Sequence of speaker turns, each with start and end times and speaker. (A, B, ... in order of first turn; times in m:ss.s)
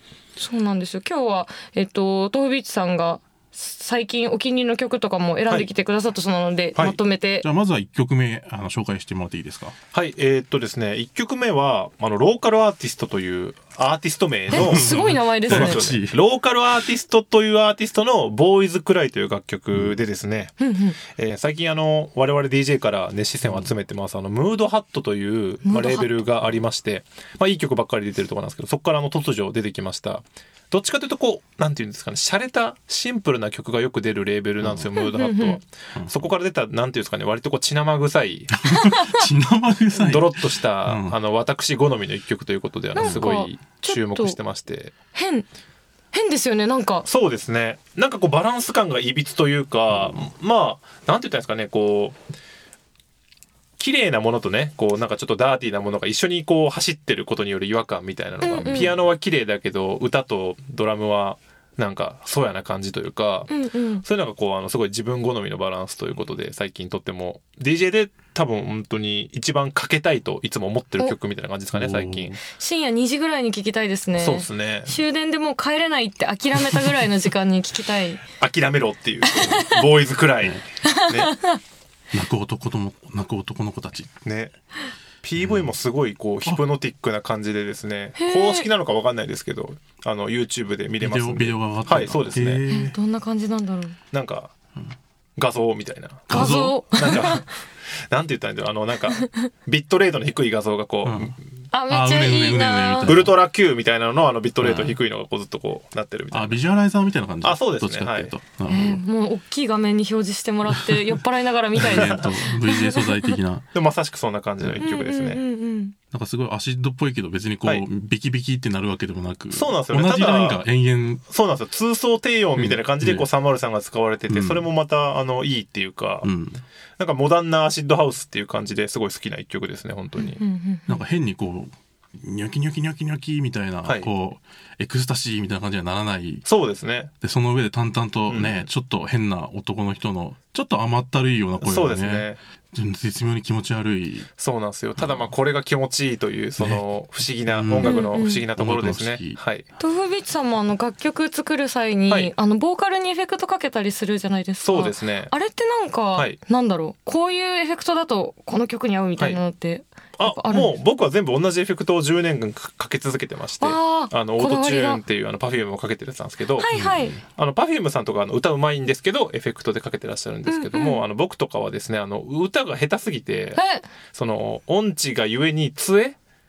0:00.4-0:07.5 A
0:07.4-0:09.8 B
0:09.9-0:38.6 C
0:14.5-0:15.9 A
0:14.5-0:16.2 B
0:20.6-0:21.0 A
0:25.6-0:26.2 A
0:34.6-0:34.9 B
0:35.0-0:35.6 A
0:36.0-0:36.2 B
0:38.6-0:41.2 B
0:38.7-0:39.3 A
0:40.0-0:44.9 C
0:43.0-0:44.4 A
0:43.0-0:43.3 B
0:45.1-0:45.5 A
0:46.1-0:47.1 A
0:47.1-0:52.2 C
0:49.9-0:50.2 B
0:53.8-1:03.5 C
0:58.4-0:58.9 A
1:03.5-1:04.0 A
1:04.0-1:12.4 C
1:11.7-1:12.4 B
1:12.5-1:18.2 A
1:14.2-1:15.0 C
1:18.4-1:21.3 C
1:19.2-1:19.8 A
1:20.8-1:21.6 A
1:22.1-1:24.1 B
1:24.2-1:24.5 C
1:25.2-1:32.6 C
1:25.4-1:25.7 B
1:28.2-1:28.7 A
1:31.0-1:33.0 B
1:32.7-1:34.0 A
1:34.1-1:34.5 C
1:35.4-1:41.4 C
1:36.3-1:36.8 B
1:36.3-1:37.4 A
1:39.2-1:39.5 A
1:41.0-1:41.4 B
1:41.7-1:43.2 A
1:41.9-1:43.4 B
1:43.1-1:46.6 C
1:44.6-1:45.0 B
1:46.3-1:49.0 B
1:47.4-1:48.3 C
1:48.7-1:53.4 A
1:51.8-1:53.7 B
1:51.9-1:52.2 C
1:53.7-1:55.4 C
1:54.8-1:56.0 A
1:56.1-2:01.2 B
1:59.5-2:00.6 C
2:01.3-2:06.3 C
2:02.6-2:03.3 B
2:04.3-2:04.6 B
2:06.2-2:06.6 B
2:07.0-2:10.4 C
2:10.2-2:11.0 A
2:10.9-2:16.4 B
2:16.5-2:17.1 C
2:17.2-2:24.3 B
2:18.3-2:18.6 C
2:21.6-2:22.4 C
2:24.4-2:29.7 C
2:25.0-2:25.3 B
2:27.5-2:29.4 B
2:27.8-2:28.4 A
2:29.8-2:40.7 A
2:34.6-2:35.3 C
2:40.2-2:46.7 C
2:43.6-2:45.0 A
2:46.6-2:47.2 A
2:46.7-2:47.2 B
2:47.3-2:53.6 C
2:50.5-2:51.0 A
2:53.6-2:53.8 A
2:54.1-2:56.2 C